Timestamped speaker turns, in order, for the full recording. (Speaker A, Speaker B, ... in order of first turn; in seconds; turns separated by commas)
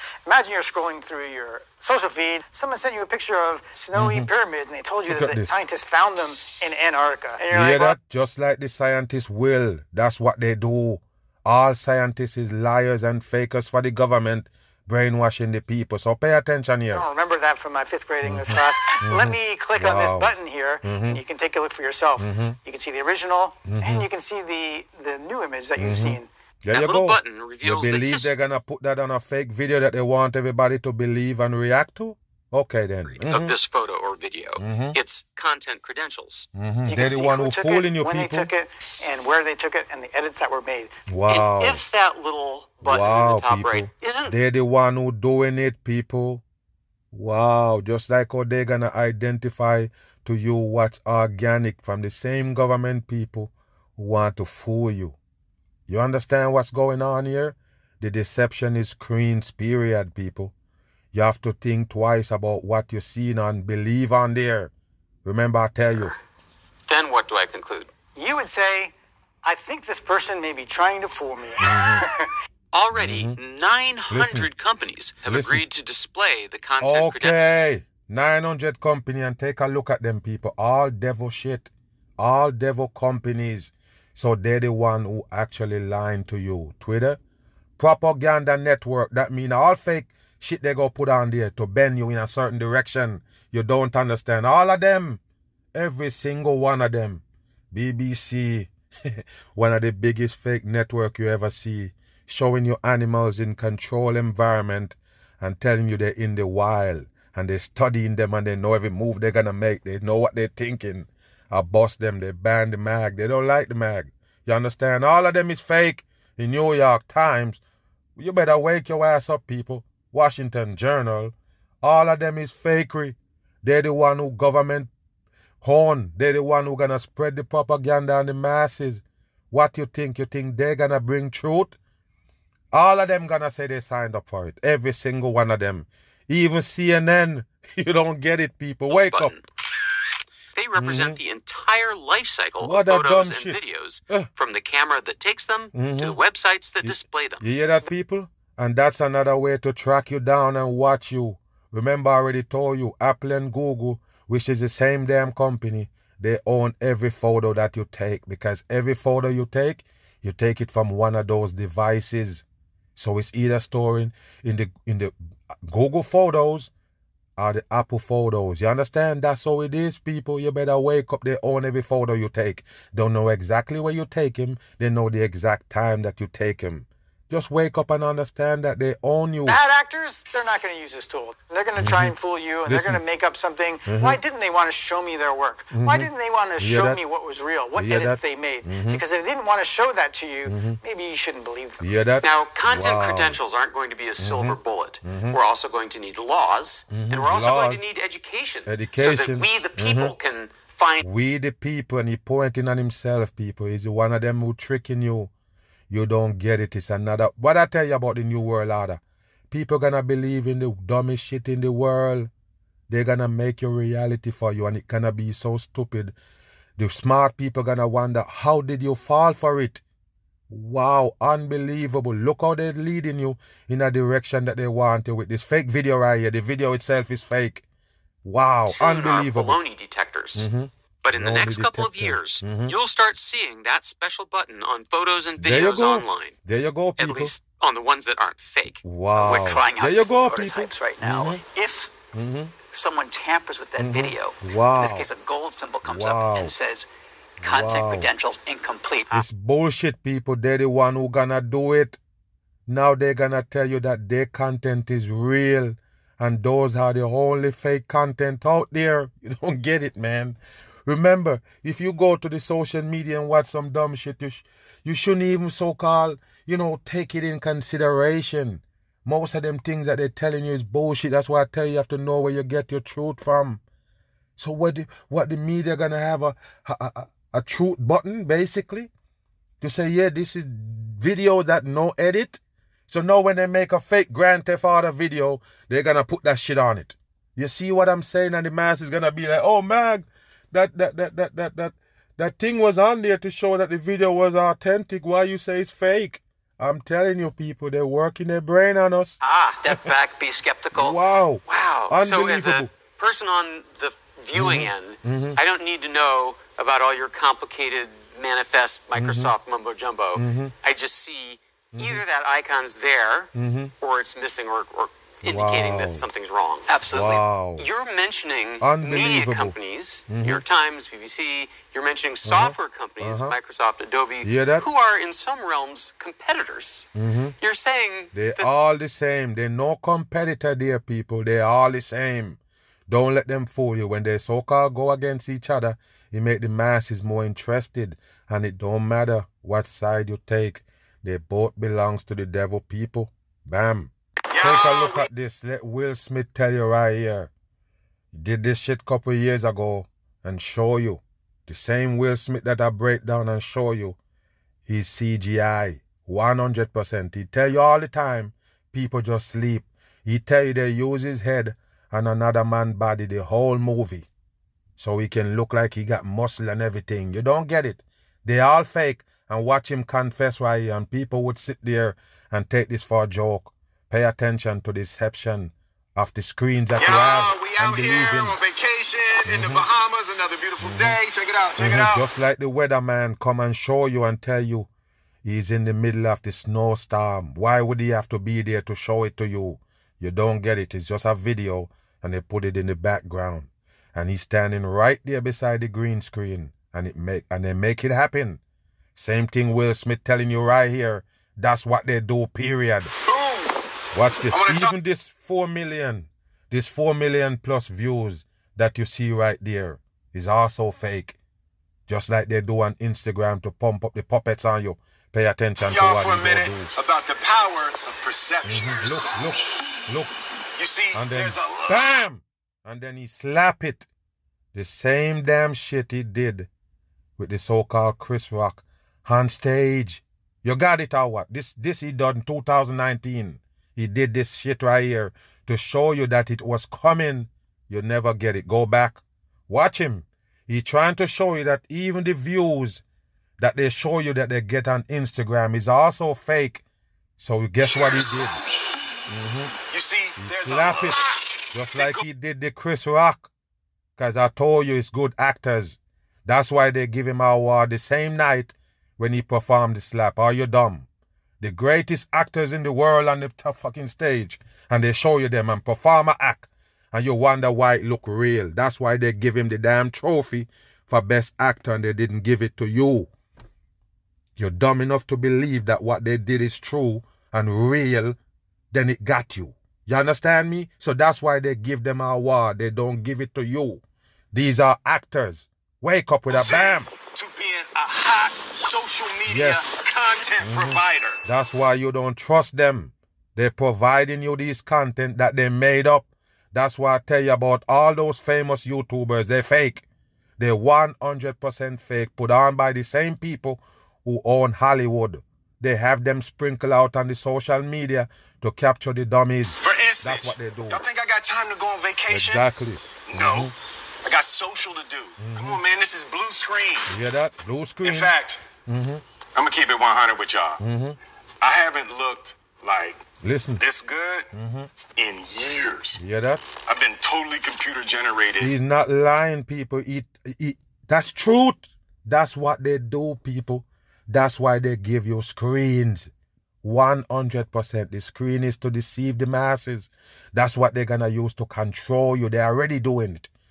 Speaker A: 0.2-8.0, Speaker B: 3.9-4.3, Speaker B: 5.1-5.5, Speaker B: 7.5-17.0, Speaker A: 16.9-26.3, Speaker B: 18.2-21.2, Speaker B: 22.2-22.6, Speaker B: 23.7-24.1, Speaker B: 25.8-33.5, Speaker C: 26.7-28.3, Speaker C: 33.1-36.5, Speaker B: 34.6-35.0, Speaker B: 36.5-38.5, Speaker A: 36.9-40.9, Speaker B: 41.1-41.8, Speaker C: 41.3-44.3, Speaker B: 42.8-46.4, Speaker B: 47.1-55.2, Speaker B: 55.9-60.5, Speaker B: 61.1-64.7, Speaker B: 65.2-66.1, Speaker C: 66.9-67.9, Speaker A: 68.2-72.3, Speaker B: 71.6-72.0, Speaker C: 72.7-77.4, Speaker B: 72.9-73.4, Speaker B: 74.1-74.5, Speaker B: 75.3-75.6, Speaker B: 76.8-87.2, Speaker B: 87.8-95.2, Speaker B: 95.7-117.6, Speaker B: 118.2-124.9, Speaker B: 125.6-131.8, Speaker B: 132.7-139.3, Speaker C: 138.9-139.4, Speaker C: 140.5-147.4, Speaker B: 140.8-141.2, Speaker B: 142.6-143.6, Speaker B: 145.7-146.2, Speaker B: 146.8-162.4, Speaker B: 162.9-166.7, Speaker B: 167.4-179.6, Speaker A: 179.4-191.9, Speaker B: 181.8-182.1, Speaker B: 182.7-183.0, Speaker B: 183.8-184.2, Speaker B: 185.7-187.0, Speaker B: 187.7-189.0, Speaker B: 190.4-190.8, Speaker B: 191.8-193.4, Speaker C: 192.2-201.1, Speaker B: 194.2-195.4, Speaker B: 196.9-197.8, Speaker B: 198.7-200.2, Speaker B: 201.0-205.3, Speaker B: 205.9-212.3, Speaker B: 212.9-216.1, Speaker B: 216.8-219.8, Speaker B: 220.5-227.6, Speaker B: 228.2-229.6, Speaker C: 228.7-230.5, Speaker B: 230.3-232.8, Speaker C: 231.0-236.3, Speaker B: 235.3-237.3, Speaker C: 237.0-238.8, Speaker B: 238.8-241.4, Speaker D: 239.2-241.9, Speaker B: 242.1-242.5, Speaker D: 242.6-246.9, Speaker B: 243.8-245.1, Speaker B: 245.8-246.6, Speaker B: 247.4-248.1, Speaker D: 247.4-249.2, Speaker B: 249.1-252.0, Speaker B: 252.7-273.6, Speaker B: 274.4-278.9, Speaker B: 279.6-299.2, Speaker D: 299.3-301.0, Speaker B: 300.7-302.7, Speaker C: 301.5-316.7, Speaker B: 304.3-305.4, Speaker B: 308.9-309.3, Speaker B: 310.1-310.5, Speaker B: 311.7-312.0, Speaker B: 313.3-313.7, Speaker B: 315.2-316.1, Speaker D: 316.7-317.2, Speaker B: 316.9-317.6, Speaker C: 317.6-326.9, Speaker B: 318.6-319.6, Speaker B: 320.1-320.4, Speaker B: 322.2-323.3, Speaker B: 324.2-324.7, Speaker B: 326.9-327.4, Speaker C: 327.4-328.5, Speaker B: 328.1-347.3, Speaker E: 344.3-345.1, Speaker B: 348.1-354.0, Speaker B: 354.7-364.1, Speaker B: 364.8-378.4, Speaker E: 376.7-382.1, Speaker B: 379.2-379.6, Speaker B: 380.6-381.0, Speaker B: 381.6-384.7, Speaker B: 385.2-398.4, Speaker B: 398.9-402.9, Speaker E: 403.0-403.5, Speaker B: 403.9-411.2, Speaker E: 404.3-404.7, Speaker B: 411.9-416.7, Speaker E: 415.6-419.4, Speaker B: 418.4-420.1, Speaker E: 420.6-422.0, Speaker B: 420.9-423.9, Speaker B: 424.5-426.5, Speaker B: 427.2-442.8, Speaker B: 443.4-446.6, Speaker B: 447.2-448.4, Speaker E: 447.6-448.3, Speaker B: 449.1-449.5, Speaker E: 449.7-452.0, Speaker B: 450.2-451.0, Speaker B: 451.5-453.3, Speaker B: 454.0-460.9, Speaker B: 461.4-473.1, Speaker B: 474.4-478.2, Speaker B: 478.7-486.9, Speaker E: 486.3-491.2, Speaker B: 489.3-489.6, Speaker B: 490.4-499.8, Speaker B: 500.4-510.8, Speaker E: 509.6-512.4, Speaker B: 512.1-513.5, Speaker E: 513.0-513.5, Speaker E: 514.0-517.0, Speaker B: 515.2-515.6, Speaker B: 516.9-518.1, Speaker E: 517.8-518.4, Speaker B: 518.6-519.0, Speaker E: 519.3-520.6, Speaker B: 520.6-521.0, Speaker E: 521.4-523.0, Speaker B: 523.2-523.6, Speaker E: 523.6-524.3, Speaker B: 524.3-524.7, Speaker E: 524.9-526.0, Speaker B: 526.0-526.4, Speaker E: 526.6-528.5, Speaker B: 528.4-536.1, Speaker B: 536.6-543.3